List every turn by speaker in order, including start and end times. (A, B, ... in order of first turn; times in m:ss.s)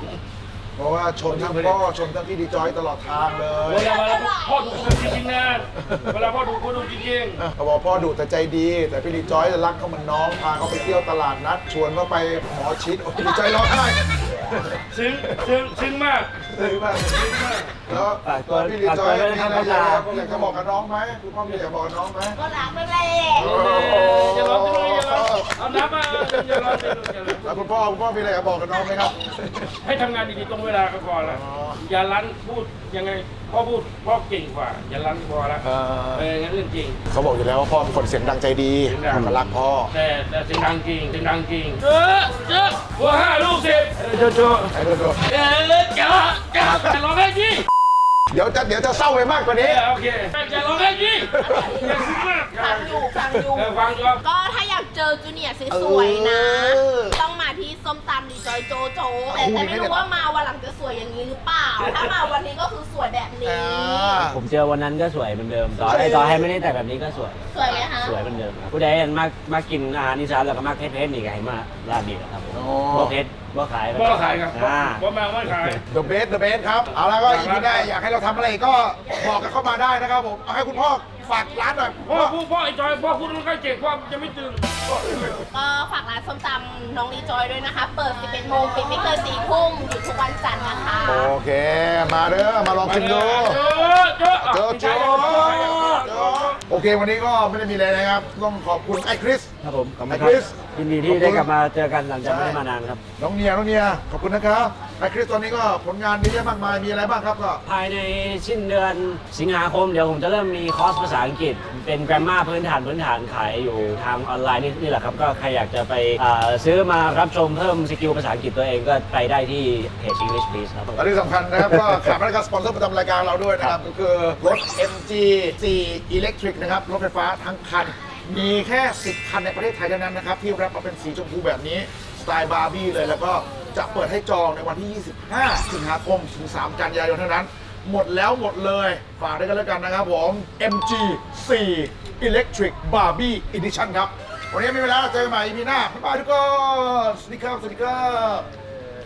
0:00.8-0:03.9 A
0:01.3-0:01.8 B
0:03.7-0:07.4 B
0:03.8-0:05.2 C
0:05.8-0:06.2 A
0:07.4-0:15.4 A
0:14.9-0:16.3 B
0:16.4-0:22.4 A
0:17.1-0:17.8 B
0:18.2-0:20.6 D
0:22.4-0:23.6 C
0:23.4-0:29.7 A
0:23.4-0:27.7 B
0:29.8-0:35.6 B
0:31.2-0:31.8 A
0:35.6-0:36.3 A
0:36.2-0:37.0 B
0:37.1-0:39.9 A
0:38.9-0:39.3 B
0:39.1-0:39.5 D
0:39.9-0:44.7 B
0:44.7-0:45.2 A
0:45.3-0:47.6 B
0:46.6-0:46.9 A
0:48.3-0:49.8 A
0:49.6-0:54.2 B
0:51.3-0:51.9 A
0:51.4-1:04.2 C
0:55.7-0:57.2 A
0:59.3-1:00.0 A
1:01.8-1:02.1 B
1:03.4-1:04.4 A
1:04.2-1:15.8 D
1:05.8-1:06.5 A
1:07.5-1:08.2 C
1:12.5-1:13.2 A
1:13.9-1:15.8 B
1:15.9-1:22.4 A
1:17.1-1:17.9 B
1:22.1-1:24.6 B
1:24.9-1:25.4 A
1:25.5-1:31.3 C
1:31.0-1:33.6 A
1:32.8-1:36.6 B
1:34.4-1:39.5 A
1:39.6-1:43.0 D
1:40.1-1:41.5 A
1:42.2-1:42.6 A
1:43.2-1:47.6 A
1:47.6-2:01.0 D
2:01.0-2:28.5 A